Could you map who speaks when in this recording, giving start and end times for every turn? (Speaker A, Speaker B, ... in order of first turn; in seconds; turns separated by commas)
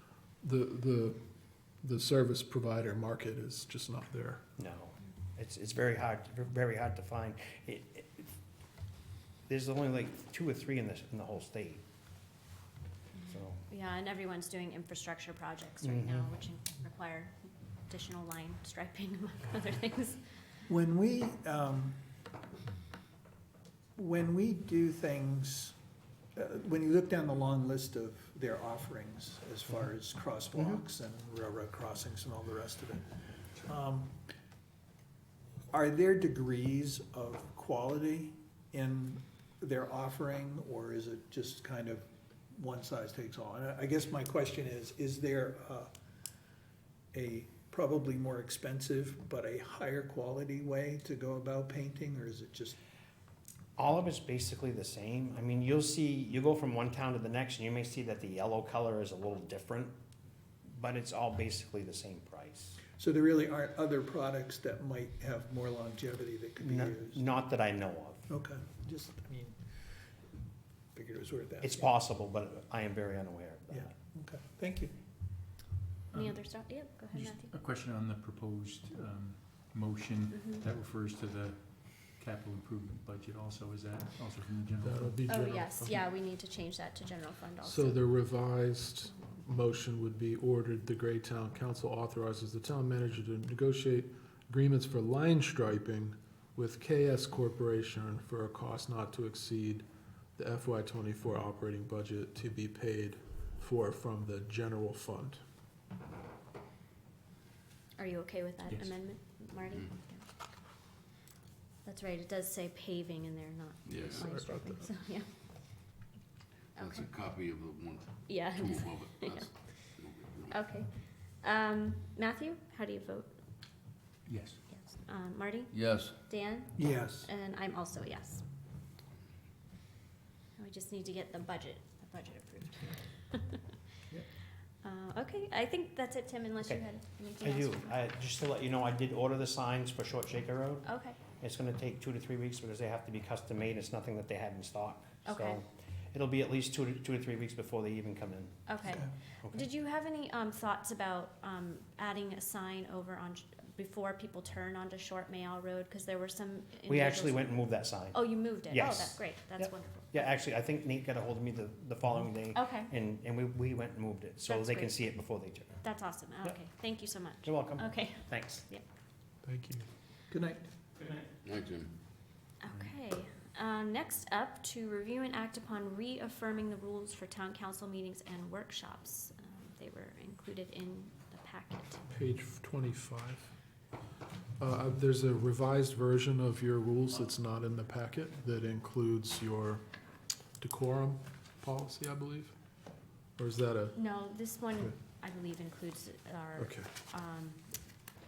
Speaker A: 0.4-1.2, Speaker A: 1.8-4.5, Speaker B: 4.6-8.3, Speaker B: 9.5-11.8, Speaker B: 13.3-13.6, Speaker C: 13.7-17.3, Speaker B: 15.8-16.3, Speaker C: 17.9-20.2, Speaker D: 20.7-22.0, Speaker D: 23.9-25.8, Speaker D: 26.3-34.2, Speaker D: 35.7-45.9, Speaker D: 47.1-52.7, Speaker B: 53.8-60.0, Speaker B: 60.6-62.8, Speaker D: 63.0-67.2, Speaker B: 66.6-68.3, Speaker D: 68.3-69.6, Speaker D: 70.9-71.8, Speaker B: 71.6-73.9, Speaker D: 73.7-74.9, Speaker E: 76.1-85.2, Speaker C: 76.1-77.5, Speaker C: 80.3-80.6, Speaker A: 84.8-86.0, Speaker C: 85.2-88.0, Speaker A: 87.6-99.8, Speaker A: 100.3-105.4, Speaker C: 108.0-110.2, Speaker E: 108.7-109.0, Speaker C: 111.8-116.0, Speaker F: 113.8-114.2, Speaker A: 114.2-114.9, Speaker C: 116.8-117.1, Speaker F: 116.8-120.6, Speaker C: 118.2-123.3, Speaker E: 124.3-124.6, Speaker C: 124.7-128.4, Speaker F: 125.7-126.1, Speaker D: 126.8-127.3, Speaker C: 130.6-133.6, Speaker C: 134.8-138.0, Speaker B: 137.4-140.9, Speaker C: 140.8-141.2, Speaker B: 141.4-148.7, Speaker C: 145.2-145.6, Speaker C: 148.7-157.6, Speaker B: 156.9-165.8, Speaker C: 158.1-160.3, Speaker C: 162.5-162.9, Speaker C: 164.5-165.2, Speaker C: 165.8-168.8, Speaker B: 167.4-168.6, Speaker A: 169.4-169.8, Speaker D: 170.3-170.7, Speaker F: 171.4-171.9, Speaker C: 172.6-182.0, Speaker A: 182.1-183.5, Speaker A: 184.6-189.8, Speaker A: 190.6-192.5, Speaker A: 193.4-194.0, Speaker C: 193.9-197.6, Speaker A: 196.6-196.9